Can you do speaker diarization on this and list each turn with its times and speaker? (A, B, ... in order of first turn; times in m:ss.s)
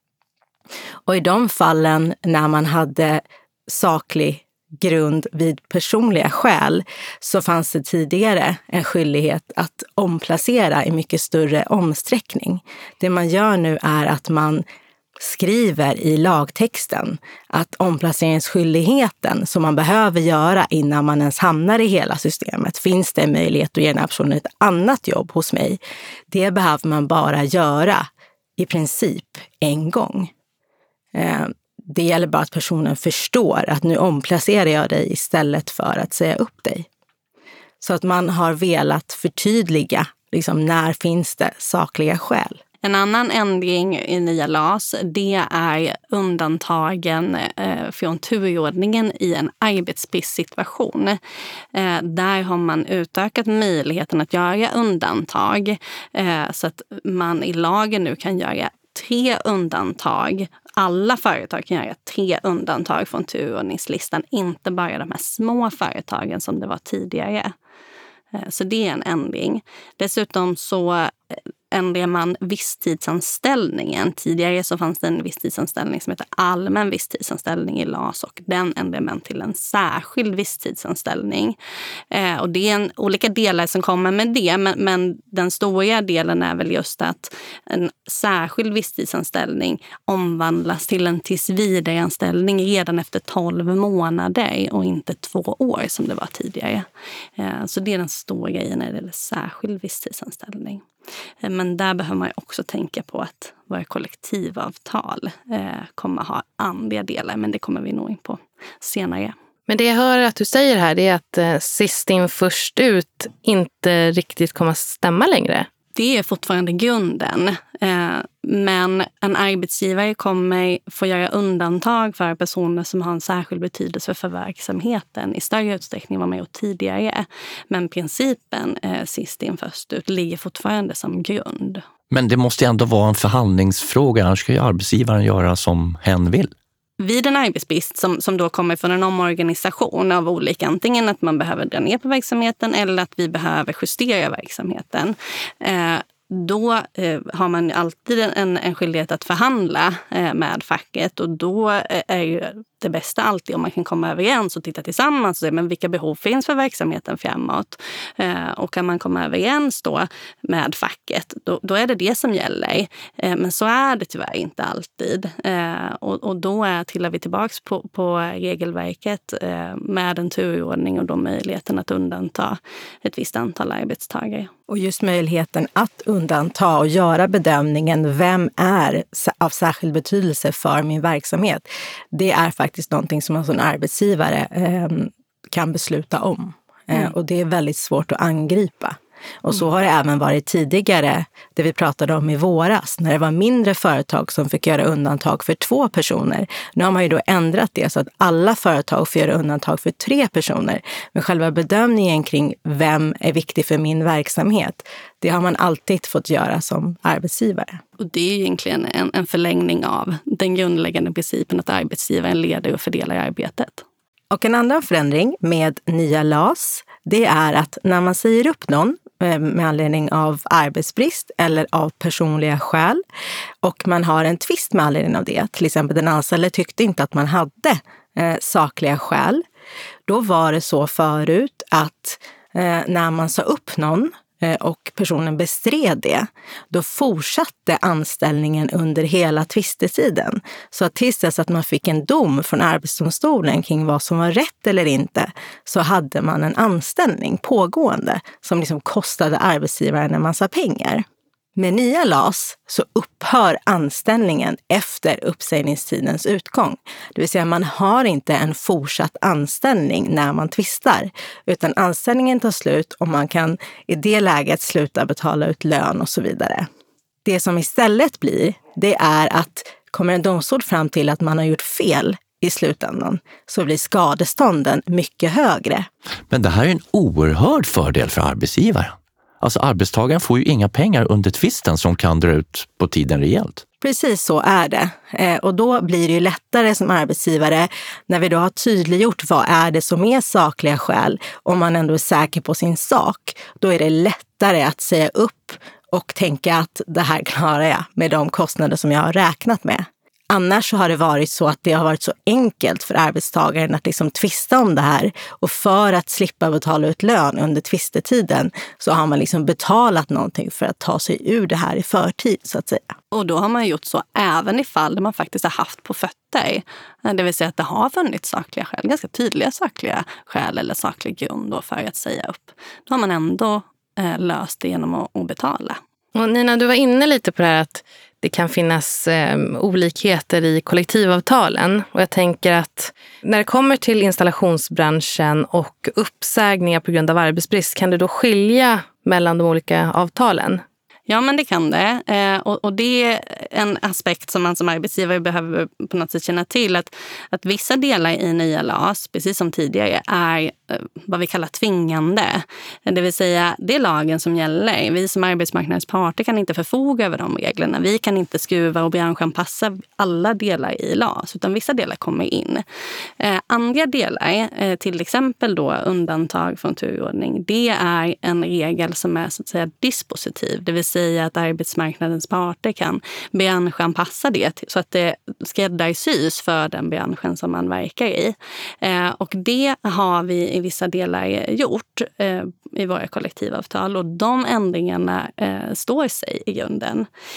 0:01.0-0:14.6 A
0:15.2-0:30.3 A
0:31.1-0:36.9 A
0:37.8-0:42.6 A
0:42.8-0:51.2 B
0:51.7-1:07.5 B
1:08.4-1:21.6 B
1:22.1-1:36.9 B
1:37.4-1:40.8 B
1:41.4-1:49.4 B
1:49.7-1:55.7 C
1:56.0-2:11.8 B
2:12.1-2:16.5 D
2:17.0-2:54.5 B
2:54.7-3:27.8 A
3:28.0-3:33.8 B
3:34.3-3:43.0 A
3:43.6-3:49.4 A
3:50.1-4:11.0 A
4:11.6-4:26.7 A
4:27.2-4:35.9 A
4:36.3-4:43.6 D
4:43.8-5:12.9 A
5:13.1-5:25.8 B
5:26.2-5:40.6 C
5:41.1-6:02.6 B
6:03.2-6:27.1 B